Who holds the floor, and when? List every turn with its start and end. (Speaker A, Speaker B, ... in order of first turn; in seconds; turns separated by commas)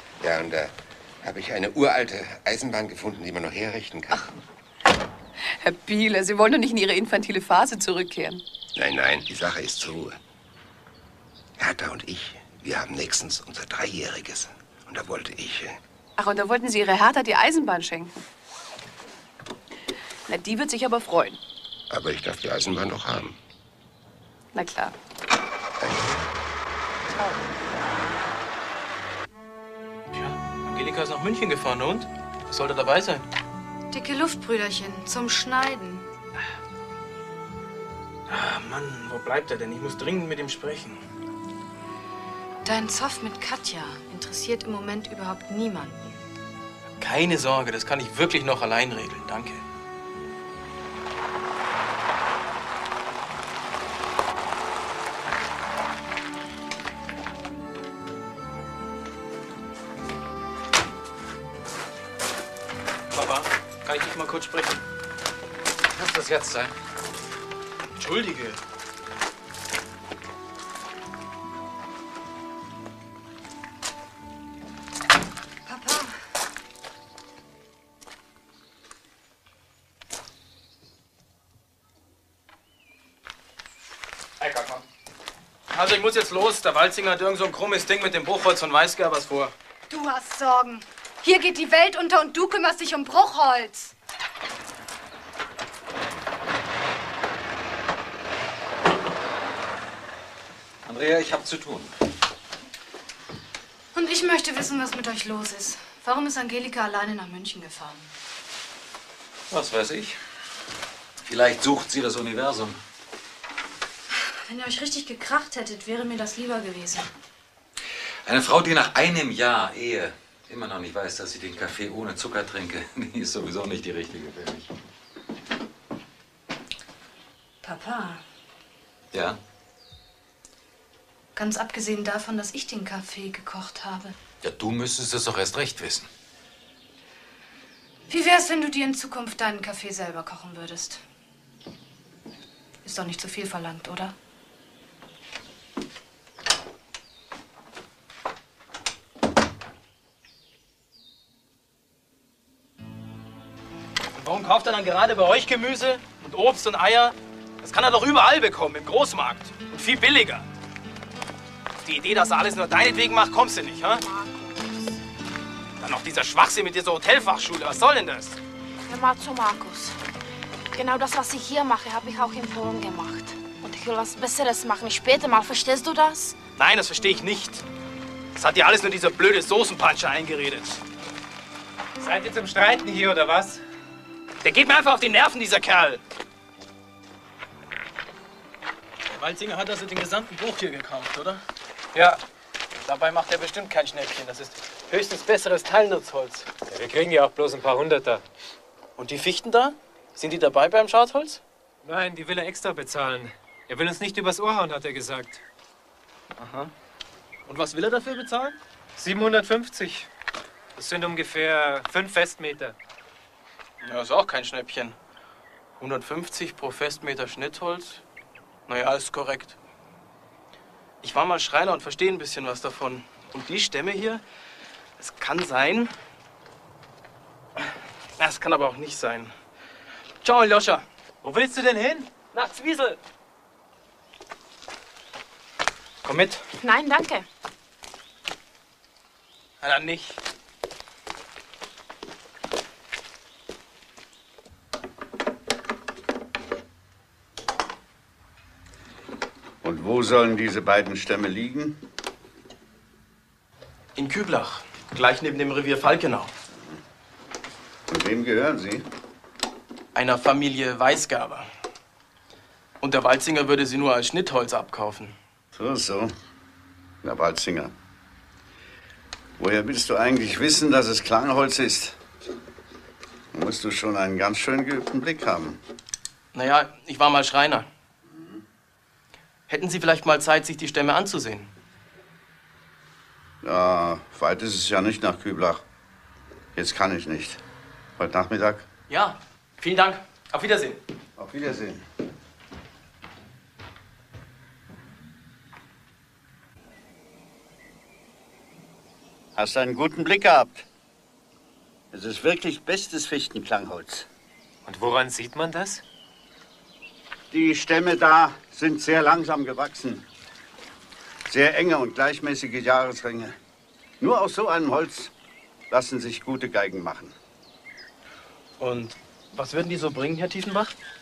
Speaker A: 0.2-0.7, Speaker A: 1.2-4.3, Speaker B: 5.6-8.4, Speaker A: 8.8-10.2, Speaker A: 11.6-15.8, Speaker B: 16.2-18.1, Speaker B: 20.3-21.4, Speaker A: 21.9-23.4, Speaker B: 24.5-24.9, Speaker A: 25.8-26.2, Speaker B: 27.1-27.4, Speaker C: 30.1-33.3, Speaker D: 33.9-36.1, Speaker C: 38.3-41.0, Speaker D: 42.6-46.2, Speaker C: 47.0-49.6, Speaker C: 63.1-64.8, Speaker E: 65.9-66.8, Speaker C: 68.0-68.6, Speaker C: 85.7-89.5, Speaker D: 89.9-93.9, Speaker E: 100.9-101.9, Speaker D: 103.9-108.1, Speaker E: 109.5-110.2, Speaker E: 111.2-112.8, Speaker D: 114.5-117.1, Speaker E: 118.2-124.7, Speaker D: 127.6-128.2, Speaker E: 129.1-129.4, Speaker D: 131.3-134.2, Speaker E: 134.4-136.1, Speaker D: 138.1-141.0, Speaker D: 142.8-144.2, Speaker C: 154.2-160.5, Speaker C: 161.8-164.0, Speaker F: 164.0-164.8, Speaker C: 165.8-168.4, Speaker F: 168.9-170.0, Speaker F: 170.7-176.4, Speaker C: 176.6-177.6, Speaker C: 178.3-180.8, Speaker G: 182.0-183.6, Speaker C: 184.4-186.0, Speaker C: 189.1-191.4, Speaker G: 191.9-192.2, Speaker C: 192.8-196.5, Speaker G: 196.7-198.2, Speaker C: 199.0-201.4, Speaker G: 201.8-205.4, Speaker C: 206.4-206.7, Speaker C: 207.5-208.6, Speaker G: 209.0-210.1, Speaker G: 210.8-212.8, Speaker C: 213.8-215.0, Speaker C: 215.8-218.0, Speaker C: 218.7-219.6, Speaker C: 221.0-224.2, Speaker C: 225.0-225.9, Speaker C: 228.2-229.3, Speaker C: 230.2-230.9, Speaker G: 231.2-232.1, Speaker C: 232.3-233.0, Speaker C: 236.0-236.4, Speaker F: 236.6-237.3, Speaker C: 239.6-240.2, Speaker H: 249.6-251.8, Speaker C: 254.0-256.3, Speaker H: 257.9-258.9, Speaker C: 259.9-261.5, Speaker C: 262.8-265.2, Speaker H: 265.5-266.1, Speaker H: 267.0-267.7, Speaker H: 269.4-272.0, Speaker H: 273.3-275.6, Speaker C: 276.3-277.7, Speaker C: 279.5-281.5, Speaker H: 283.4-285.6, Speaker H: 286.6-287.4, Speaker H: 288.0-288.7, Speaker C: 288.9-290.8, Speaker H: 291.2-291.8, Speaker H: 299.4-300.7, Speaker H: 301.9-304.1, Speaker G: 304.6-305.8, Speaker H: 307.3-310.1, Speaker H: 311.3-313.4, Speaker H: 314.0-315.1, Speaker H: 315.7-317.1, Speaker C: 318.6-320.8